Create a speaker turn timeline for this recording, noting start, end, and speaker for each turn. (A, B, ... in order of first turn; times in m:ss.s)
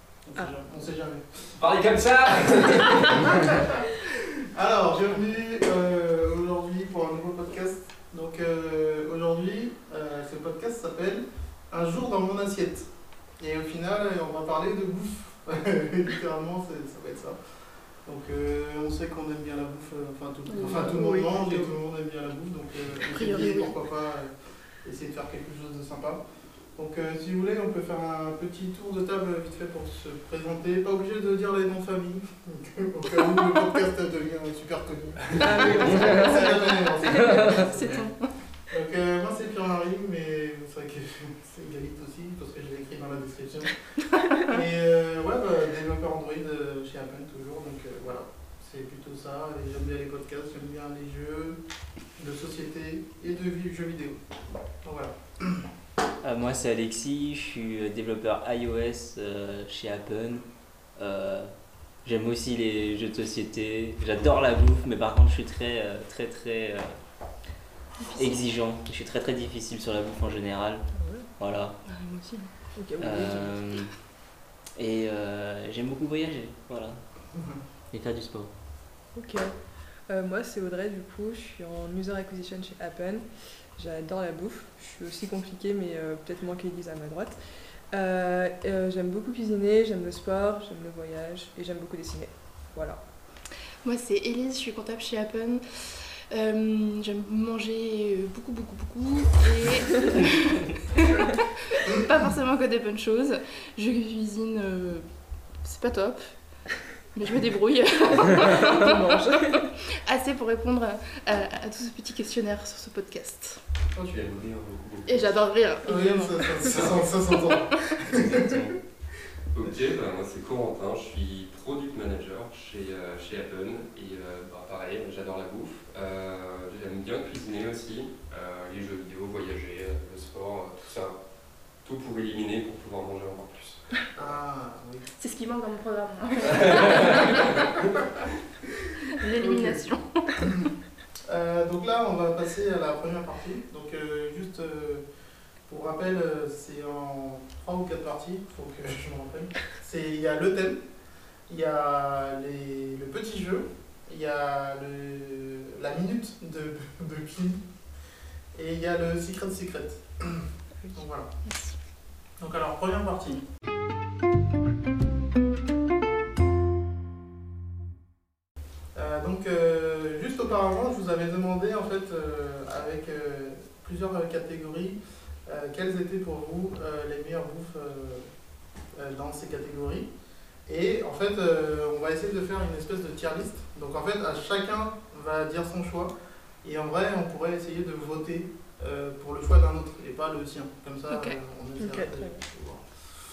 0:00.2-0:01.5 A
0:01.6-0:03.2 B
0:02.2-0:12.9 A
0:13.4-0:17.4 A
0:18.0-0:24.3 A
0:20.5-0:21.7 C
0:23.1-0:23.8 D
0:24.8-0:26.2 A
0:26.8-0:38.1 A
0:35.4-0:37.5 C
0:35.8-0:36.5 E
0:37.1-0:37.7 E
0:37.1-0:38.2 D
0:38.7-0:43.8 A
0:44.3-0:51.6 A
0:52.2-0:54.2 A
0:54.8-0:55.7 A
0:56.2-1:00.4 E
1:01.0-1:01.5 E
1:02.0-1:07.0 E
1:08.0-1:08.4 D
1:08.2-1:10.8 E
1:11.0-1:11.3 C
1:11.4-1:11.8 E
1:11.9-1:12.5 D
1:12.8-1:13.7 C
1:13.0-1:13.9 E
1:14.8-1:17.0 E
1:17.3-1:17.6 A
1:17.9-1:18.5 E
1:19.1-1:19.5 C
1:20.1-1:27.4 C
1:27.9-1:33.0 C
1:33.8-1:45.0 D
1:45.6-1:46.3 D
1:47.2-1:53.6 D
1:48.2-1:49.7 C
1:54.0-1:54.3 A
1:54.1-1:55.3 B
1:55.1-1:56.7 D
1:55.8-1:58.7 A
1:56.6-1:57.1 B
1:58.1-1:58.8 B
1:59.5-2:11.2 B
2:11.8-2:13.8 B
2:14.2-2:15.1 A
2:15.2-2:17.7 D
2:16.4-2:17.8 B
2:19.1-2:20.5 D
2:19.3-2:19.9 A
2:20.4-2:20.7 A
2:21.3-2:25.0 A
2:25.7-2:30.8 A
2:31.5-2:37.6 A
2:38.5-2:41.3 A
2:41.5-2:41.8 D
2:42.4-2:43.4 A
2:49.0-2:58.3 A
2:59.0-3:00.1 A
3:00.7-3:12.9 A
3:11.1-3:11.4 D
3:11.8-3:12.4 C